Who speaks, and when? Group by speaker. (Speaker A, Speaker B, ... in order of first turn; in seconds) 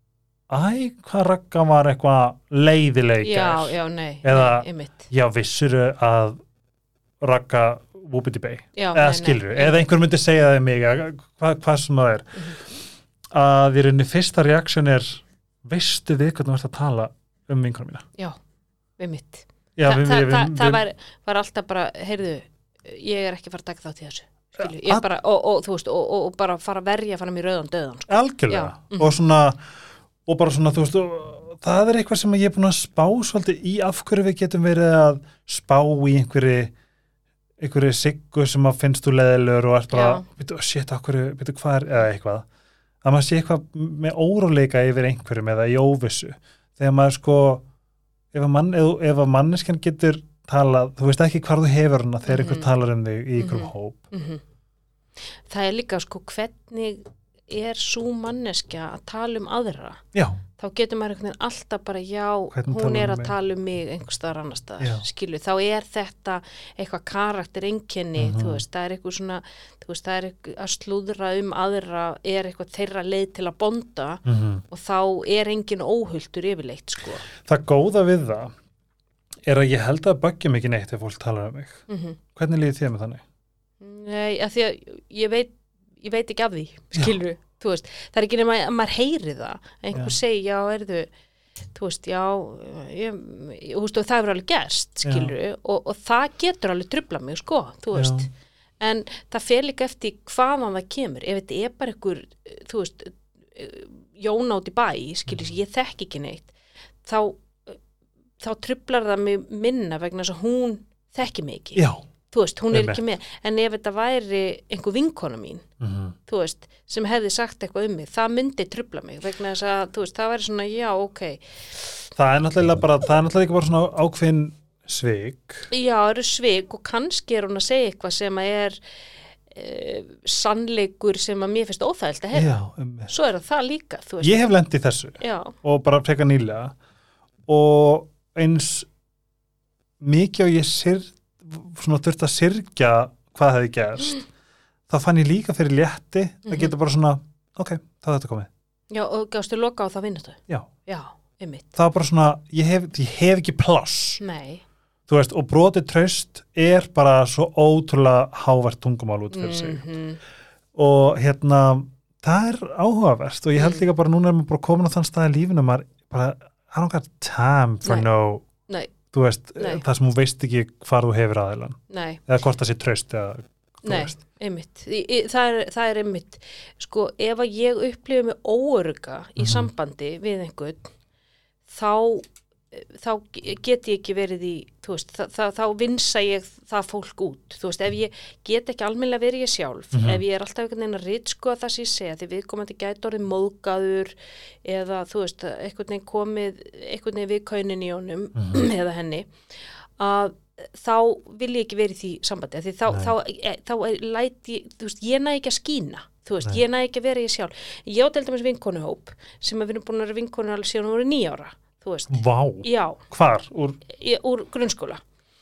Speaker A: 0.5-6.4, 7.2-12.7, 13.3-18.1, 19.8-20.8, 24.6-25.1, 28.1-29.7, 30.3-36.7, 37.6-42.5, 43.0-47.6, 48.3-54.0, 60.1-60.4, 62.5-63.3, 64.8-65.0, 68.2-68.6, 74.2-74.6, 77.4-78.5, 79.5-81.8, 82.3-83.2, 95.0-95.3, 97.9-98.3, 111.8-112.0, 112.7-113.0, 115.8-116.2, 122.2-125.7, 132.3-133.1, 134.2-136.8, 137.5-138.9, 140.0-144.2, 144.9-148.5, 151.8-154.2, 155.1-159.8, 160.8-168.4, 169.1-174.2, 179.4-179.7, 189.9-190.2, 198.4-198.7, 202.9-203.1, 212.1-213.8
Speaker B: 3.2-5.0, 8.8-9.8, 19.0-29.1, 39.9-40.2, 52.3-52.7, 53.4-54.4, 55.5-60.0, 60.6-77.3, 81.9-82.2, 83.8-91.1, 91.8-107.8, 108.4-115.7, 116.3-122.1, 125.7-128.8, 129.5-132.5, 133.1-134.5, 135.2-135.6, 146.5-146.8, 148.9-151.8, 154.2-154.6, 159.3-160.2, 163.6-163.8, 171.9-172.2, 173.8-180.9, 181.7-213.0, 213.9-215.0